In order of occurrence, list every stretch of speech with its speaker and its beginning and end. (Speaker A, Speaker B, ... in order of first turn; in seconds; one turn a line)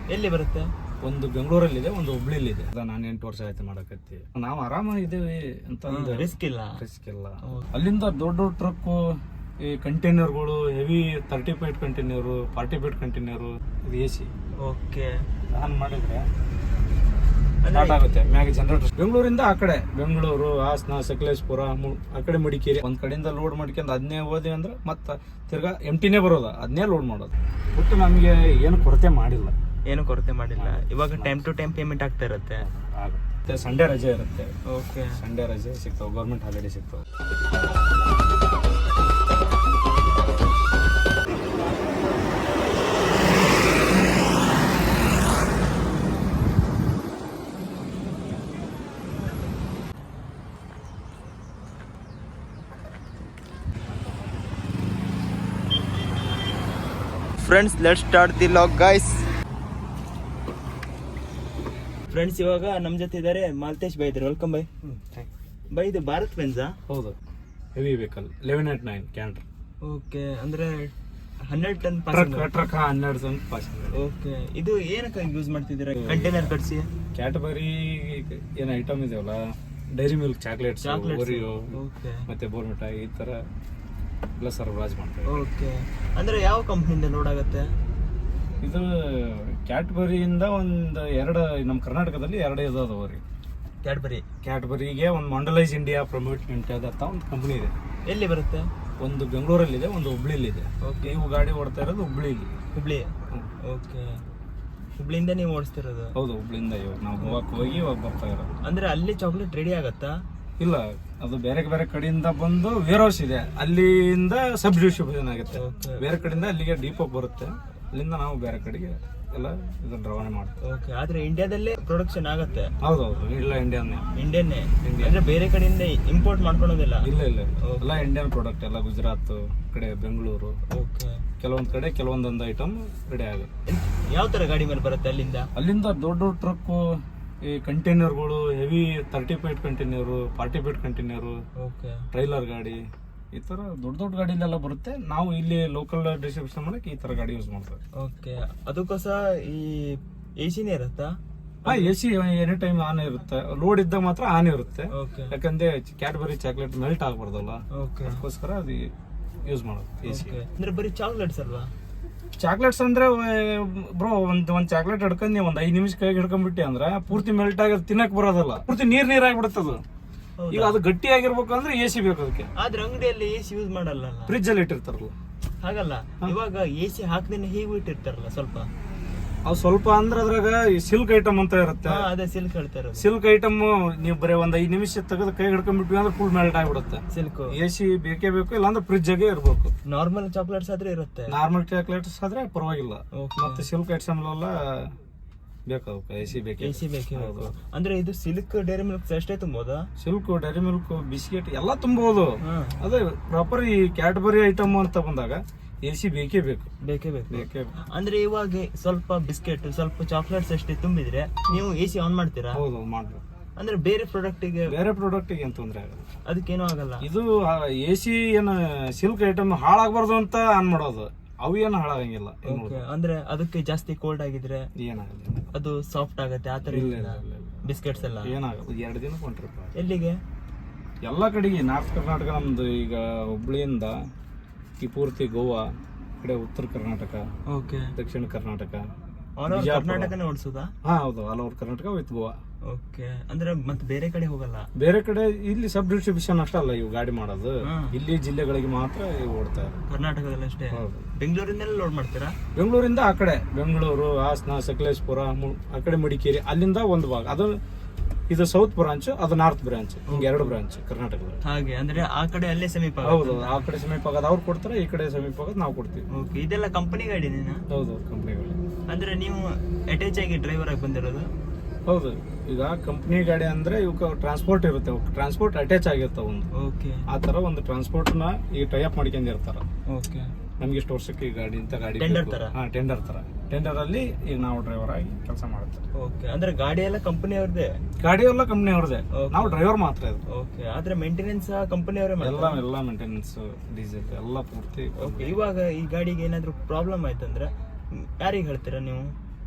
Speaker A: 0.1-0.7
Speaker B: 1.0-14.3
Speaker A: 5.9-6.8
Speaker A: 14.6-15.3
Speaker B: 15.5-16.3
Speaker A: 17.6-18.1
Speaker B: 17.7-29.5
Speaker A: 29.9-32.6
Speaker B: 30.6-31.3
Speaker B: 32.6-34.6
Speaker A: 34.7-35.2
Speaker B: 35.1-37.0
Speaker A: 57.4-59.3
Speaker A: 62.1-64.8
Speaker B: 64.9-65.3
Speaker A: 65.7-66.8
Speaker B: 66.9-67.2
Speaker B: 67.8-69.5
Speaker A: 69.8-70.9
Speaker A: 71.5-72.5
Speaker B: 72.1-74.0
Speaker A: 73.9-76.9
Speaker B: 75.9-76.5
Speaker B: 77.2-79.4
Speaker B: 80.0-81.7
Speaker A: 80.8-82.2
Speaker B: 82.3-83.4
Speaker B: 84.4-85.5
Speaker A: 85.3-87.7
Speaker B: 88.6-93.2
Speaker A: 93.8-94.2
Speaker B: 94.4-97.7
Speaker A: 98.1-98.7
Speaker B: 99.0-102.5
Speaker A: 100.8-101.2
Speaker A: 102.7-104.2
Speaker A: 105.0-106.1
Speaker B: 106.2-108.5
Speaker A: 107.2-107.9
Speaker A: 108.6-110.2
Speaker B: 110.6-120.6
Speaker A: 115.5-116.0
Speaker A: 120.6-122.7
Speaker B: 122.8-124.1
Speaker A: 124.2-127.1
Speaker B: 124.8-125.2
Speaker B: 127.0-130.6
Speaker A: 127.6-128.1
Speaker A: 130.7-131.2
Speaker B: 131.4-133.5
Speaker A: 133.7-135.5
Speaker B: 135.6-136.8
Speaker B: 137.5-141.4
Speaker A: 141.6-142.1
Speaker B: 142.1-142.8
Speaker B: 143.3-147.8
Speaker A: 148.0-151.9
Speaker B: 151.7-158.9
Speaker A: 154.9-155.3
Speaker A: 157.7-158.2
Speaker B: 159.4-160.4
Speaker A: 160.1-161.7
Speaker B: 162.4-169.8
Speaker A: 170.4-170.8
Speaker B: 170.5-172.5
Speaker A: 172.6-174.4
Speaker B: 174.3-175.2
Speaker A: 175.6-178.7
Speaker B: 179.5-182.1
Speaker A: 181.8-183.1
Speaker B: 183.0-189.7
Speaker A: 187.1-187.6
Speaker A: 189.9-191.3
Speaker B: 191.3-194.9
Speaker A: 193.2-193.7
Speaker B: 195.7-197.5
Speaker A: 196.6-199.9
Speaker B: 200.0-206.7
Speaker A: 202.4-202.8
Speaker A: 206.8-212.6
Speaker B: 207.3-207.7
Speaker B: 212.5-213.2
Speaker A: 213.6-214.7
Speaker B: 214.7-216.1
Speaker A: 216.3-217.1
Speaker B: 217.0-222.8
Speaker A: 222.4-224.7
Speaker B: 224.8-225.5
Speaker A: 225.5-228.3
Speaker B: 226.7-229.7
Speaker A: 229.8-230.2
Speaker B: 231.1-234.0
Speaker B: 234.8-235.7
Speaker B: 236.2-237.3
Speaker A: 237.5-237.9
Speaker B: 237.9-238.9
Speaker A: 239.4-240.7
Speaker B: 239.5-240.1
Speaker B: 240.8-242.3
Speaker A: 242.7-244.7
Speaker B: 244.8-249.8
Speaker A: 247.6-247.9
Speaker A: 249.9-252.3
Speaker B: 250.7-251.1
Speaker B: 252.6-257.6
Speaker B: 258.3-261.4
Speaker A: 260.1-260.6
Speaker A: 261.4-263.7
Speaker B: 263.0-266.0
Speaker A: 266.1-267.6
Speaker B: 267.7-268.6
Speaker A: 268.9-271.3
Speaker B: 271.9-276.5
Speaker A: 276.6-277.1
Speaker B: 277.1-279.6
Speaker A: 279.9-280.3
Speaker B: 280.6-285.9
Speaker A: 282.0-282.5
Speaker A: 286.0-287.7
Speaker B: 288.0-290.2
Speaker A: 289.1-289.6
Speaker A: 290.3-292.6
Speaker B: 292.2-295.4
Speaker A: 295.0-299.1